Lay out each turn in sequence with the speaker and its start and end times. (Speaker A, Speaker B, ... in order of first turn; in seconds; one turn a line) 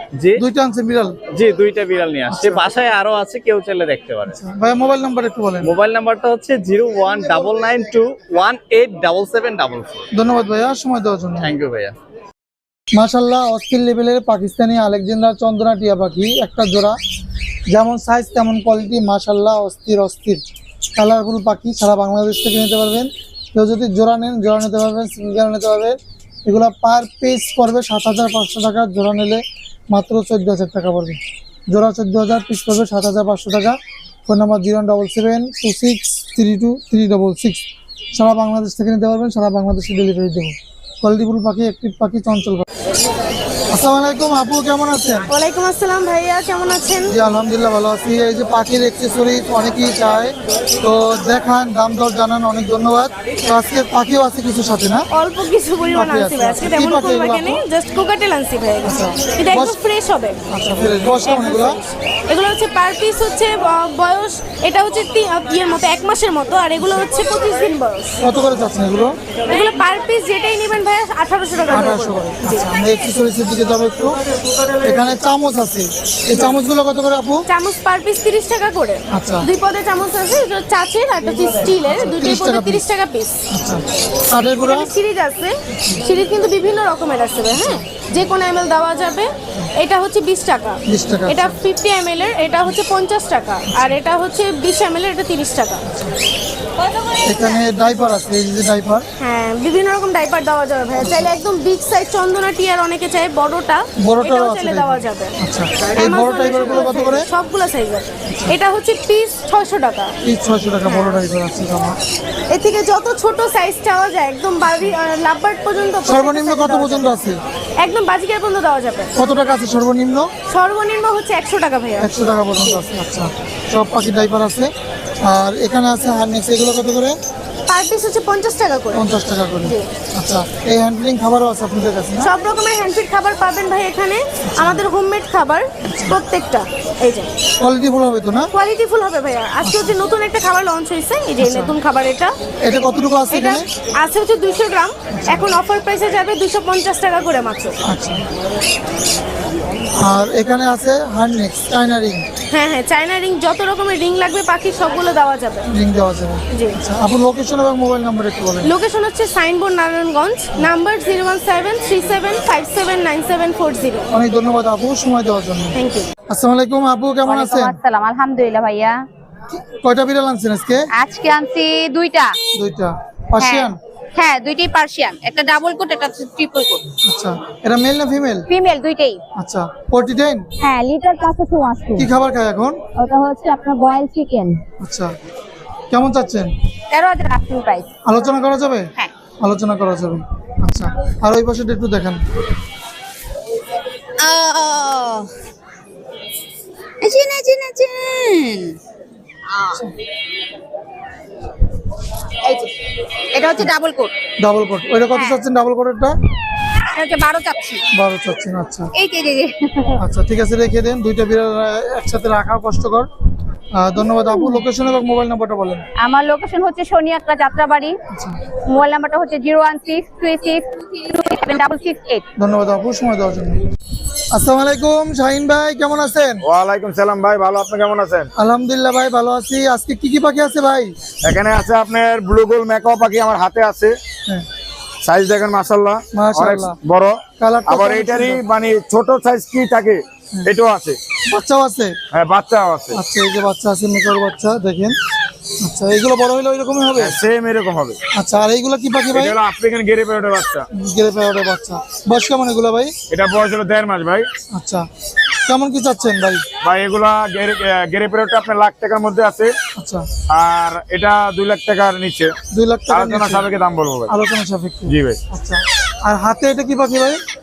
Speaker A: 0.2-0.4
Speaker B: 0.4-1.1
Speaker A: 1.3-4.4
Speaker B: 2.3-2.6
Speaker B: 4.3-5.7
Speaker A: 5.6-10.0
Speaker B: 10.1-11.5
Speaker A: 11.4-12.0
Speaker B: 12.9-17.0
Speaker B: 17.7-20.4
Speaker B: 21.0-31.2
Speaker B: 31.7-42.7
Speaker B: 43.7-45.3
Speaker C: 45.3-47.1
Speaker B: 47.1-55.1
Speaker C: 55.1-60.4
Speaker B: 55.9-57.6
Speaker B: 58.9-59.8
Speaker B: 60.5-61.8
Speaker C: 61.2-68.2
Speaker B: 68.2-69.2
Speaker C: 69.5-72.7
Speaker B: 71.7-74.2
Speaker B: 74.8-77.4
Speaker C: 77.5-83.4
Speaker B: 79.1-79.5
Speaker B: 81.6-82.8
Speaker B: 83.5-84.9
Speaker C: 84.5-95.8
Speaker B: 90.9-91.6
Speaker B: 97.3-99.1
Speaker C: 99.2-110.1
Speaker B: 101.0-101.3
Speaker B: 104.0-107.3
Speaker B: 108.3-108.5
Speaker B: 110.2-112.0
Speaker C: 110.9-111.2
Speaker C: 112.5-117.2
Speaker B: 116.1-117.4
Speaker C: 117.8-119.2
Speaker B: 119.2-120.3
Speaker C: 120.5-122.8
Speaker B: 122.0-127.2
Speaker C: 127.7-129.1
Speaker B: 128.9-132.3
Speaker C: 132.2-137.3
Speaker B: 134.5-134.8
Speaker B: 135.9-136.2
Speaker B: 137.6-138.5
Speaker C: 138.5-142.3
Speaker B: 139.6-139.9
Speaker B: 141.4-141.7
Speaker B: 142.6-143.7
Speaker C: 143.3-147.8
Speaker B: 145.2-145.5
Speaker B: 147.8-148.2
Speaker B: 150.0-152.2
Speaker C: 152.5-155.7
Speaker B: 155.7-158.7
Speaker C: 158.6-164.1
Speaker B: 164.1-165.8
Speaker C: 165.7-166.1
Speaker B: 166.3-167.8
Speaker D: 167.2-169.0
Speaker B: 169.5-170.9
Speaker D: 170.9-172.4
Speaker B: 172.6-173.8
Speaker D: 173.4-176.9
Speaker B: 177.1-178.5
Speaker D: 178.5-179.2
Speaker B: 179.4-180.5
Speaker D: 180.6-182.1
Speaker B: 182.0-182.8
Speaker D: 183.0-184.6
Speaker B: 184.8-185.2
Speaker B: 185.9-186.5
Speaker D: 186.9-187.9
Speaker B: 188.1-188.9
Speaker B: 189.4-192.2
Speaker D: 194.2-195.3
Speaker D: 197.0-198.8
Speaker D: 199.6-199.9
Speaker D: 202.4-202.7
Speaker D: 203.3-204.1
Speaker B: 204.4-206.2
Speaker D: 205.1-205.5
Speaker D: 206.9-207.8
Speaker B: 207.9-208.9
Speaker D: 208.9-210.0
Speaker B: 210.0-213.1
Speaker B: 213.7-215.8
Speaker D: 214.3-214.6
Speaker D: 216.0-218.0
Speaker D: 218.7-222.2
Speaker B: 222.4-223.7
Speaker B: 224.3-226.4
Speaker E: 226.4-228.3
Speaker B: 228.4-231.0
Speaker E: 231.2-233.9
Speaker E: 235.0-241.0
Speaker B: 236.1-236.8
Speaker B: 237.4-238.4
Speaker B: 241.3-242.0
Speaker E: 242.1-243.0
Speaker B: 242.9-245.0
Speaker B: 245.6-247.2
Speaker E: 247.0-248.0
Speaker B: 248.2-249.4
Speaker E: 249.1-250.7
Speaker B: 250.7-252.9
Speaker E: 253.1-254.2
Speaker B: 254.5-254.9
Speaker B: 255.5-256.4
Speaker E: 256.6-259.5
Speaker B: 259.8-260.1
Speaker E: 260.3-262.3
Speaker B: 262.5-263.5
Speaker E: 262.9-264.1
Speaker B: 264.1-267.2
Speaker E: 264.9-265.2